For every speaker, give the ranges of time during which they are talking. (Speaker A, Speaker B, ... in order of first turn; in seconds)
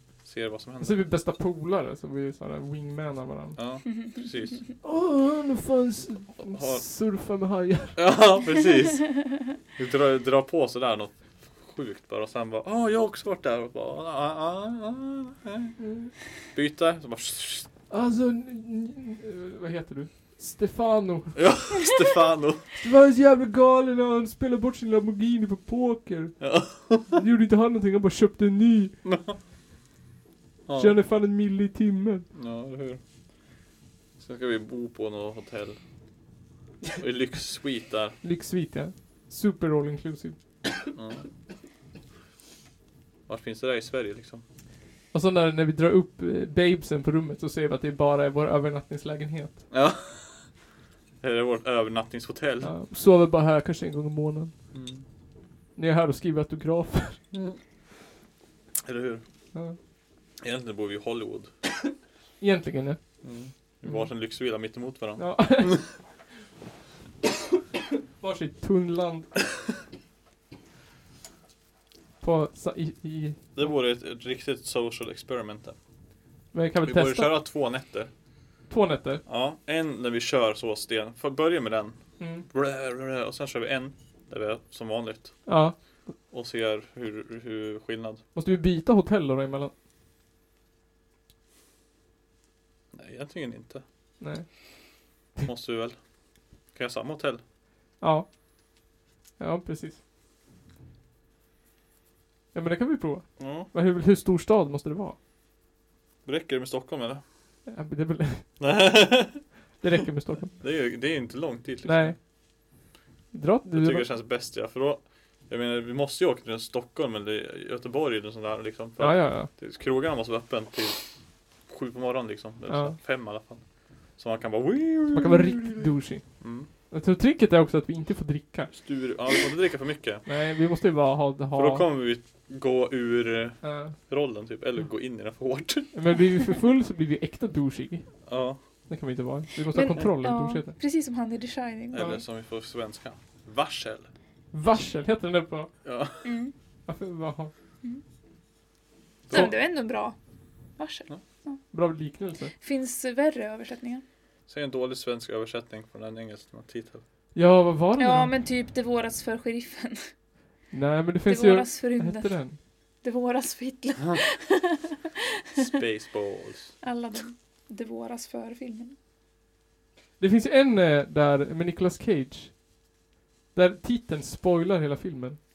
Speaker A: 0.2-1.0, 3.6-4.6, 6.4-6.8, 8.0-15.8, 16.4-17.7, 21.3-22.7, 26.4-27.2, 29.0-29.3, 30.7-31.0, 32.3-33.0, 34.2-35.8, 36.9-38.2, 40.9-41.2, 43.3-44.4, 49.7-50.5, 51.2-52.7, 54.7-55.0, 58.8-59.2, 60.4-61.5, 63.2-65.8, 73.5-75.8, 76.8-78.1, 79.3-85.5, 86.3-88.2, 92.9-93.8, 95.4-96.0, 96.7-97.4, 103.4-103.7, 106.2-107.2, 108.6-109.5, 110.5-112.2, 113.7-121.0, 121.7-126.7, 128.7-130.2, 131.5-135.9, 138.3-138.6, 141.9-144.1, 145.8-146.2, 154.5-157.0, 165.6-166.8
Speaker B: 0.8-3.6, 4.8-8.0, 15.8-16.1, 17.9-21.5, 22.8-28.9, 30.8-32.3, 38.2-40.4, 45.1-49.7, 52.6-54.5, 55.8-57.2, 62.4-63.2, 65.2-66.0, 68.2-69.3, 72.2-73.7, 76.5-77.3, 78.7-79.2, 82.2-82.5, 85.5-85.8, 88.3-89.7, 94.2-94.5, 98.0-98.3, 99.4-100.0, 102.5-105.2, 107.7-108.5, 109.8-110.5, 111.8-112.2, 113.3-114.1, 119.0-119.5, 122.7-123.0, 125.1-128.7, 130.2-131.9, 133.6-133.9, 135.9-140.7, 141.9-142.2, 144.5-145.7, 146.9-147.5, 151.7-152.5, 157.3-158.3, 160.7-162.6, 170.2-172.6, 173.5-175.4
Speaker C: 139.7-142.1, 146.2-146.5, 149.3-150.2, 150.8-151.6, 152.6-154.0, 158.0-160.1, 161.3-162.5, 163.0-164.8, 166.8-168.9